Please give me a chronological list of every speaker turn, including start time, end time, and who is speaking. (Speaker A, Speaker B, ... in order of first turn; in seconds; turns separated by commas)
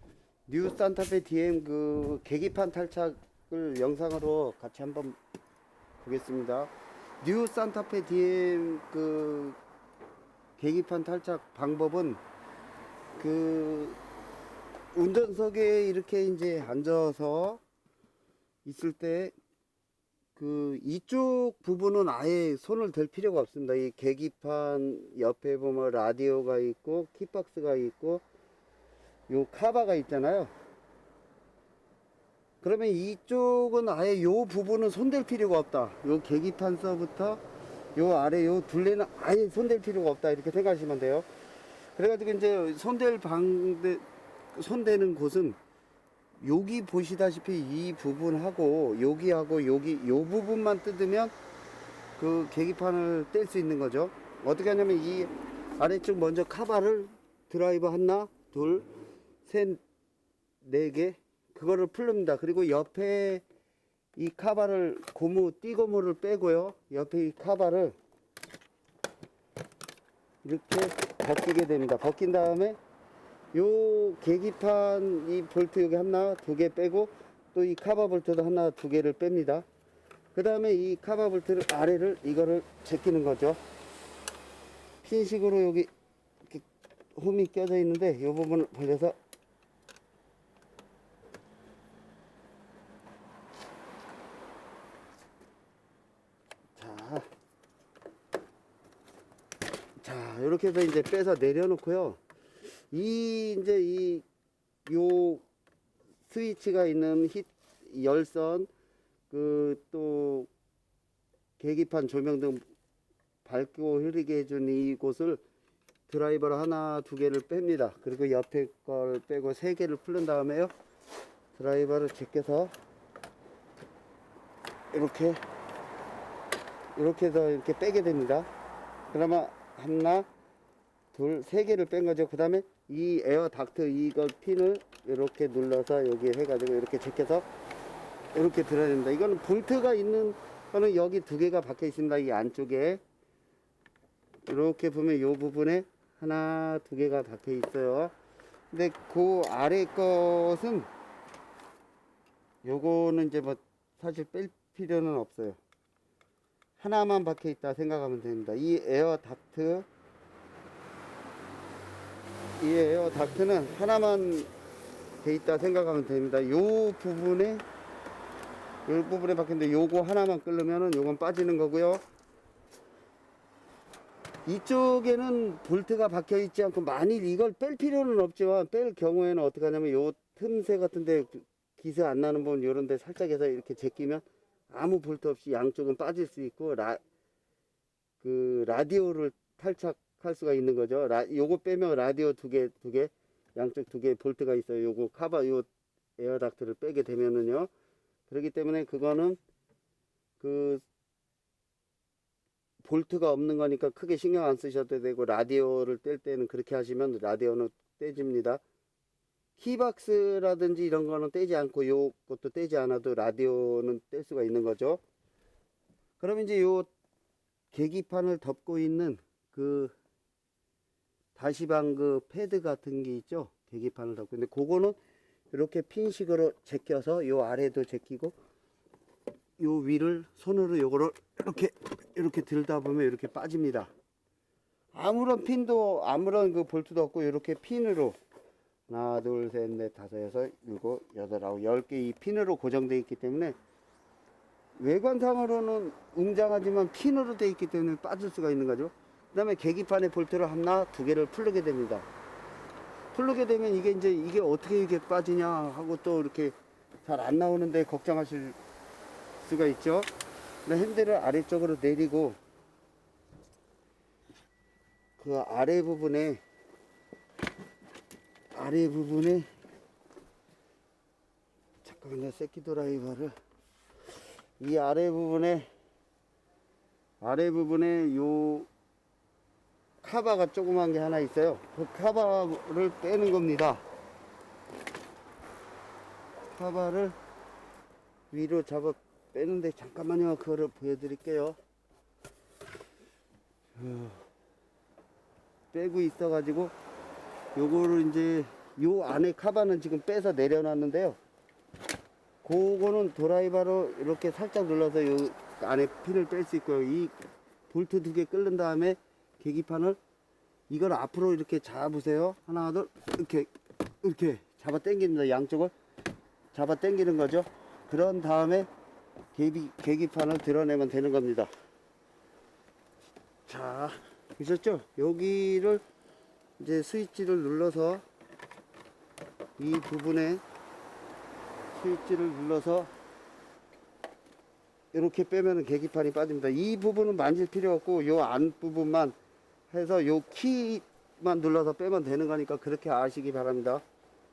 Speaker A: 0.5-5.2, Speaker A: 6.0-6.7, Speaker A: 7.2-9.6, Speaker A: 10.6-12.2, Speaker A: 13.2-14.0, Speaker A: 14.9-17.6, Speaker A: 18.6-19.3, Speaker A: 20.4-28.2, Speaker A: 29.3-30.5, Speaker A: 32.6-37.4, Speaker A: 38.0-41.3, Speaker A: 42.0-45.6, Speaker A: 46.4-51.3, Speaker A: 52.2-58.9, Speaker A: 59.4-59.8, Speaker A: 60.6-63.4, Speaker A: 64.2-67.9, Speaker A: 70.4-72.8, Speaker A: 73.5-79.7, Speaker A: 80.3-83.6, Speaker A: 85.0-85.9, Speaker A: 86.5-89.2, Speaker A: 96.8-97.3, Speaker A: 100.0-102.2, Speaker A: 102.9-104.2, Speaker A: 104.9-105.4, Speaker A: 106.3-108.7, Speaker A: 109.3-110.5, Speaker A: 111.6-112.6, Speaker A: 113.4-115.4, Speaker A: 116.1-120.7, Speaker A: 121.5-122.7, Speaker A: 124.9-125.4, Speaker A: 127.0-128.5, Speaker A: 129.1-130.3, Speaker A: 131.1-137.5, Speaker A: 138.3-143.0, Speaker A: 144.5-148.1, Speaker A: 148.7-150.9, Speaker A: 152.6-155.6, Speaker A: 156.8-159.9, Speaker A: 162.6-164.5, Speaker A: 165.2-167.6, Speaker A: 168.9-172.0, Speaker A: 174.5-187.0, Speaker A: 188.2-197.7, Speaker A: 198.3-199.4, Speaker A: 200.4-200.8, Speaker A: 202.8-208.6, Speaker A: 209.6-215.0, Speaker A: 216.2-216.9, Speaker A: 217.7-219.9, Speaker A: 221.3-225.0, Speaker A: 225.5-228.3, Speaker A: 229.6-233.9, Speaker A: 234.9-238.2, Speaker A: 238.9-243.6, Speaker A: 244.8-252.1, Speaker A: 253.1-258.6, Speaker A: 259.4-260.1, Speaker A: 260.7-262.4, Speaker A: 265.2-266.4, Speaker A: 268.5-269.5, Speaker A: 271.8-273.3, Speaker A: 274.6-275.7, Speaker A: 277.2-278.7, Speaker A: 280.0-283.8, Speaker A: 286.5-287.2, Speaker A: 288.3-291.6, Speaker A: 293.8-294.2, Speaker A: 295.7-296.7, Speaker A: 297.6-301.2, Speaker A: 302.4-307.1, Speaker A: 307.7-310.0, Speaker A: 310.7-313.5, Speaker A: 314.0-315.7, Speaker A: 316.5-318.7, Speaker A: 319.4-321.5, Speaker A: 323.5-325.8, Speaker A: 326.6-328.0, Speaker A: 329.6-330.4, Speaker A: 331.7-332.9, Speaker A: 334.9-339.1, Speaker A: 339.7-343.8